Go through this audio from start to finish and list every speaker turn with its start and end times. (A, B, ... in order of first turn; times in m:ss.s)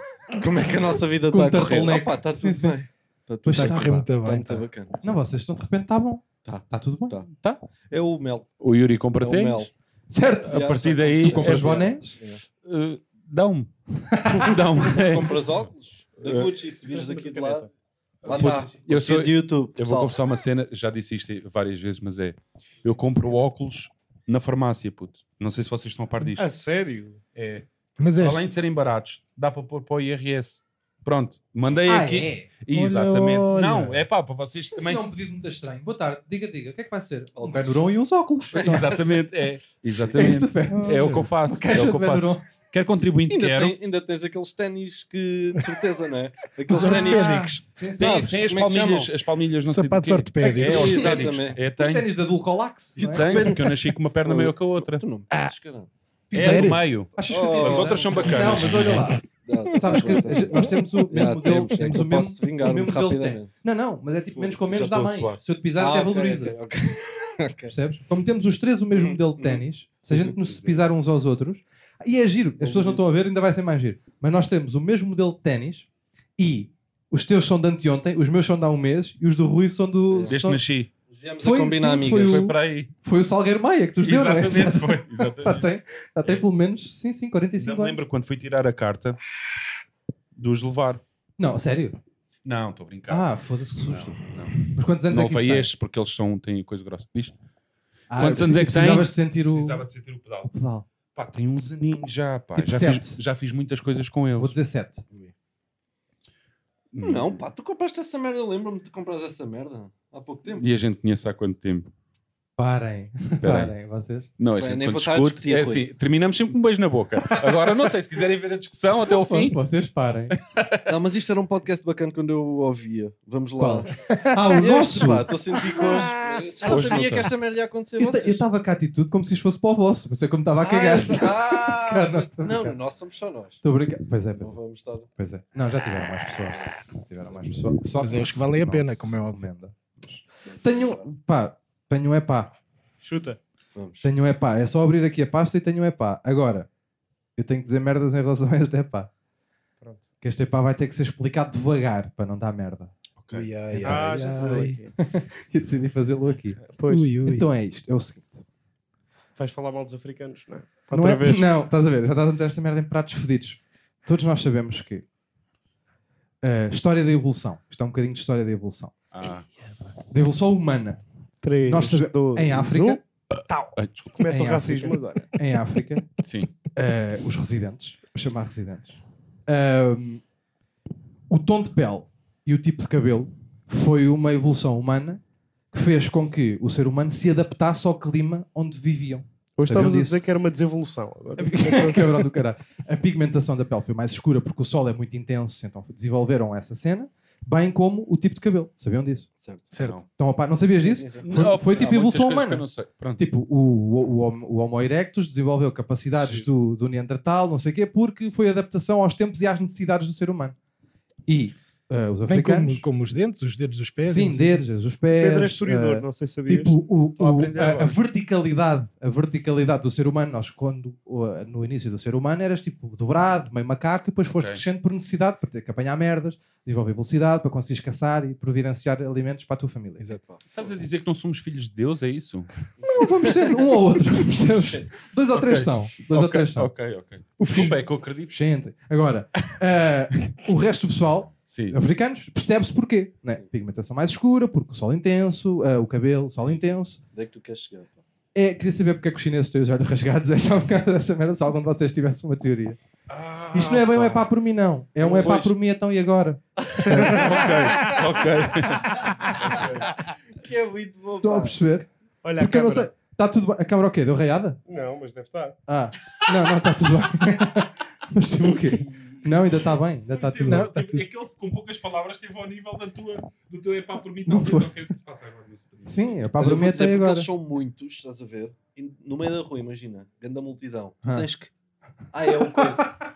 0:00.4-0:05.2 A
0:01.3-0:02.8 B
0:03.4-0:04.1 B
0:03.5-0:04.7 C
0:05.0-0:07.2 B
0:06.4-0:07.3 A
0:07.4-0:07.6 D
0:07.9-0:08.5 A
0:08.6-0:09.7 D
0:09.2-0:09.7 A
0:10.1-0:10.6 B
0:10.5-0:11.9 D
0:10.5-0:12.4 A
0:11.2-0:12.2 B
0:12.6-0:15.4 D
0:14.1-0:14.5 B
0:14.8-0:17.7 A
0:16.2-0:16.5 D
0:16.7-0:17.7 E
0:18.2-0:26.5 D
0:18.2-0:20.2 A
0:26.2-0:27.2 E
0:27.4-0:35.0 D
0:28.0-0:28.4 C
0:31.9-0:32.5 B
0:32.7-0:34.0 C
0:34.8-0:39.0 B
0:37.4-0:37.9 A
0:38.5-0:39.2 A
0:38.5-0:43.8 D
0:40.1-0:42.4 B
0:40.7-0:41.2 C
0:43.3-0:49.1 A
0:46.7-0:47.6 C
0:46.7-0:48.3 B
0:48.0-0:52.1 D
0:49.6-0:51.2 C
0:50.4-0:51.6 A
0:51.6-0:53.5 B
0:53.0-0:55.9 A
0:53.1-0:55.0 D
0:56.3-1:06.6 B
0:56.3-0:59.1 D
0:56.4-0:56.8 C
0:57.3-1:03.5 A
0:59.9-1:00.9 C
1:04.4-1:04.8 A
1:04.6-1:05.4 D
1:05.8-1:07.7 A
1:07.7-1:20.6 B
1:09.0-1:10.3 A
1:10.5-1:10.8 D
1:12.6-1:13.0 A
1:20.3-1:20.9 D
1:21.1-1:22.6 A
1:21.4-1:28.0 B
1:22.2-1:22.9 D
1:24.0-1:25.7 D
1:27.6-1:29.2 D
1:30.4-1:31.0 D
1:31.4-1:32.0 B
1:32.4-1:33.3 D
1:33.1-1:35.7 B
1:33.9-1:37.3 D
1:38.1-1:39.8 B
1:38.1-1:40.5 D
1:40.5-1:40.8 B
1:41.2-1:44.6 D
1:42.6-1:43.2 B
1:44.4-1:45.1 B
1:46.9-1:47.4 D
1:47.0-1:50.7 A
1:50.6-1:51.9 D
1:52.6-1:54.3 B
1:53.4-1:53.7 D
1:54.4-1:59.6 D
1:54.6-1:55.9 A
1:59.1-2:00.4 B
2:00.3-2:00.9 D
2:00.9-2:04.0 A
2:03.6-2:05.3 B
2:04.6-2:08.4 A
2:05.7-2:06.1 C
2:06.6-2:07.3 D
2:08.0-2:12.8 B
2:10.6-2:13.6 A
2:13.6-2:14.6 B
2:14.4-2:15.1 A
2:15.2-2:22.5 B
2:18.0-2:19.5 C
2:20.5-2:21.1 A
2:23.0-2:23.4 E
2:23.8-2:24.1 A
2:24.0-2:26.7 B
2:27.4-2:29.1 B
2:30.2-2:32.9 B
2:33.2-2:33.5 D
2:33.3-2:34.8 C
2:33.7-2:34.0 B
2:33.8-2:34.9 E
2:35.0-2:36.7 B
2:36.7-2:37.1 E
2:36.9-2:37.5 C
2:37.2-2:38.4 B
2:39.4-2:41.5 E
2:40.9-2:45.0 B
2:46.4-2:48.9 B
2:49.1-2:49.5 D
2:50.1-2:51.0 B
2:51.4-2:55.3 E
2:51.6-2:53.0 B
2:53.8-2:54.3 D
2:54.3-2:56.1 B
2:56.2-2:56.5 D
2:56.7-3:00.2 B
3:01.3-3:05.2 B
3:05.7-3:10.2 B
3:09.6-3:12.2 E
3:11.4-3:19.3 B
3:19.4-3:19.7 A
3:19.7-3:20.0 C
3:19.8-3:20.0 D
3:20.2-3:22.7 B
3:20.7-3:21.6 A
3:21.2-3:23.2 D
3:23.2-3:30.6 B
3:26.2-3:26.5 D
3:31.3-3:32.8 B
3:32.3-3:34.6 C
3:34.0-3:50.1 B
3:35.1-3:36.8 E
3:37.2-3:38.0 D
3:50.2-3:50.8 A
3:50.5-3:52.5 D
3:52.8-3:53.3 A
3:52.9-3:56.7 B
3:54.4-3:54.9 A
3:55.3-3:58.3 D
3:57.4-3:57.8 C
3:57.5-3:57.8 B
3:58.3-4:07.0 B
4:01.5-4:01.8 D
4:07.1-4:08.0 A
4:08.3-4:12.8 B
4:13.1-4:14.2 D
4:13.5-4:17.5 B
4:15.0-4:15.5 A
4:16.9-4:17.2 E
4:16.9-4:19.9 D
4:17.5-4:17.8 A
4:20.4-4:21.6 A
4:21.2-4:24.6 B
4:22.2-4:22.9 E
4:24.7-4:25.6 E
4:25.7-4:30.7 B
4:30.0-4:36.0 D
4:30.5-4:31.0 C
4:34.3-4:34.7 B
4:35.8-4:37.3 B
4:36.4-4:41.5 A
4:41.0-4:41.3 B
4:42.1-4:43.0 A